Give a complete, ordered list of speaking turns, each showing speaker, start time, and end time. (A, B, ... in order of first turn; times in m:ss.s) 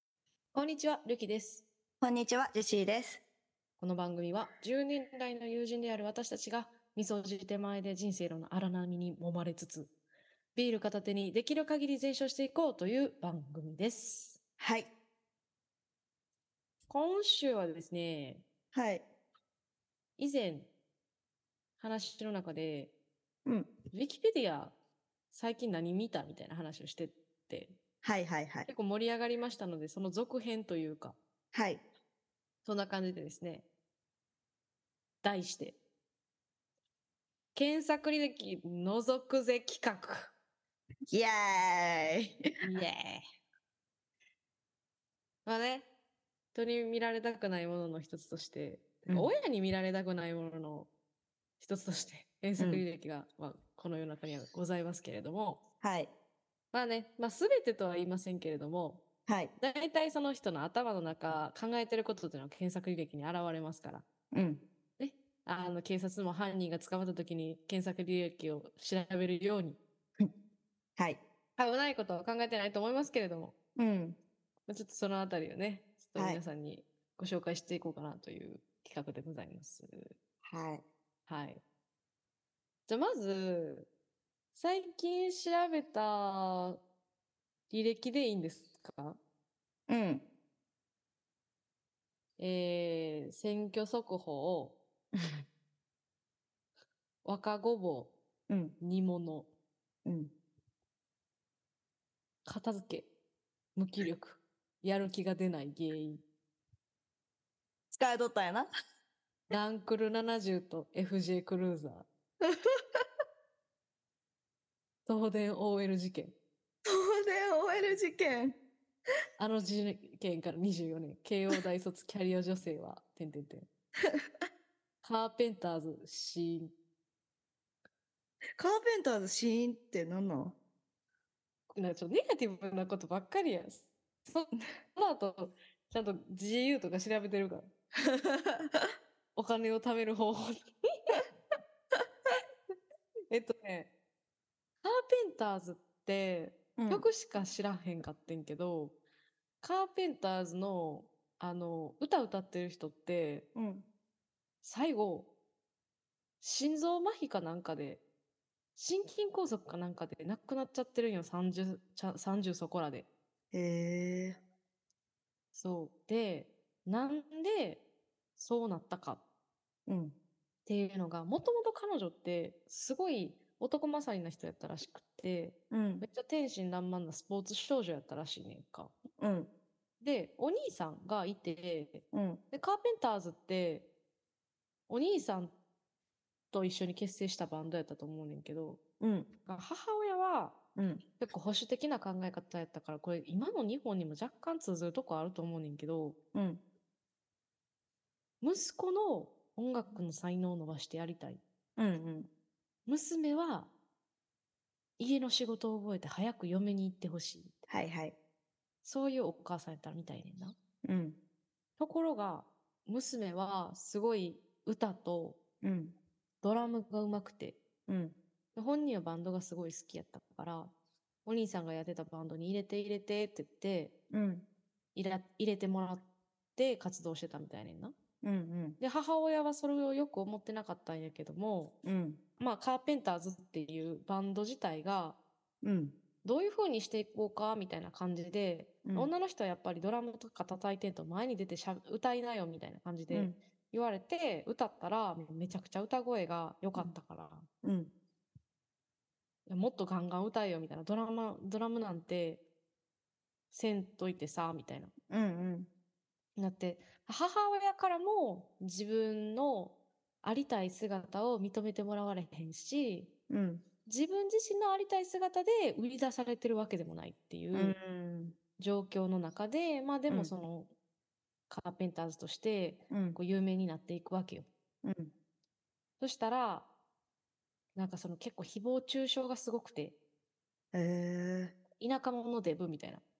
0:00.5-0:01.6 A
0:02.0-0:03.2 B
0:03.8-0:09.9 A
0:10.6-0:14.4 A
0:14.6-0:14.9 B
0:16.9-0:18.4 A
0:18.7-0:19.1 B
0:20.2-0:20.7 A
0:21.8-0:22.9 A
0:23.5-0:23.7 B
0:23.9-0:24.7 A
0:25.3-0:27.8 A
0:28.0-0:28.7 B
0:28.7-0:31.2 A
0:31.5-0:31.8 B
0:32.6-0:33.6 A
0:35.2-0:35.8 A
0:37.6-0:40.3 A
0:41.1-0:42.3 B
0:42.6-0:43.2 A
0:45.5-0:45.9 A
0:46.5-0:50.9 A
0:51.6-0:55.6 A
0:52.6-0:52.8 B
0:55.8-0:56.1 B
0:56.7-0:59.0 A
0:59.3-0:59.5 B
0:59.6-1:04.1 A
1:04.3-1:04.6 B
1:05.0-1:09.8 A
1:11.6-1:13.5 A
1:13.8-1:14.2 B
1:14.7-1:20.2 A
1:16.2-1:16.4 B
1:20.4-1:20.8 B
1:21.3-1:21.6 A
1:22.9-1:23.9 A
1:24.5-1:26.8 A
1:27.7-1:29.2 A
1:29.9-1:30.2 B
1:32.4-1:34.8 A
1:35.2-1:35.4 B
1:37.2-1:38.1 A
1:38.5-1:38.8 B
1:38.8-1:39.5 A
1:40.0-1:40.3 B
1:42.5-1:43.1 A
1:43.8-1:46.2 A
1:47.9-1:48.7 B
1:49.5-1:52.1 A
1:52.4-1:53.0 B
1:55.1-1:56.3 A
1:56.8-1:58.6 B
1:59.4-2:03.7 A
2:05.0-2:06.7 A
2:08.6-2:10.6 B
2:11.7-2:17.7 A
2:18.1-2:18.9 B
2:19.4-2:21.2 A
2:23.3-2:23.9 A
2:24.8-2:29.0 A
2:26.8-2:27.1 B
2:29.6-2:33.5 A
2:33.6-2:33.9 B
2:34.6-2:35.3 A
2:36.4-2:38.0 A
2:38.8-2:43.1 A
2:43.5-2:44.4 B
2:45.5-2:47.8 A
2:48.4-2:49.2 A
2:49.9-2:50.2 B
2:50.7-2:58.9 A
2:55.7-2:56.1 B
2:59.2-2:59.5 B
3:00.0-3:03.9 A
3:02.1-3:02.4 B
3:04.9-3:05.5 A
3:06.5-3:08.8 A
3:09.0-3:09.3 B
3:09.5-3:10.6 A
3:10.8-3:11.0 B
3:11.2-3:16.2 A
3:16.3-3:16.6 B
3:18.4-3:21.4 A
3:21.8-3:22.3 B
3:22.9-3:23.7 A
3:25.0-3:27.5 A
3:27.7-3:28.2 B
3:28.8-3:30.6 A
3:30.8-3:31.2 B
3:31.8-3:35.4 A
3:35.6-3:36.0 B
3:36.4-3:37.6 A
3:37.9-3:38.2 B
3:38.6-3:40.7 A
3:41.2-3:43.9 A
3:44.1-3:44.4 B
3:45.0-3:46.0 A
3:46.6-3:47.9 A
3:48.2-3:48.8 B
3:48.8-3:51.8 A
3:51.8-3:52.2 B
3:52.4-3:55.2 A
3:55.6-3:56.0 B
3:56.2-4:07.5 A
3:58.8-3:59.1 B
4:07.6-4:07.9 B
4:09.5-4:12.4 A
4:13.5-4:14.9 A
4:15.1-4:15.7 B
4:16.4-4:23.1 A
4:23.3-4:23.6 B
4:23.9-4:27.8 A
4:27.5-4:28.4 B
4:28.6-4:30.7 A
4:31.5-4:34.5 A
4:32.9-4:33.2 B
4:34.8-4:35.1 B
4:36.0-4:36.7 A
4:37.8-4:40.0 A
4:40.7-4:41.6 B
4:41.8-4:43.0 A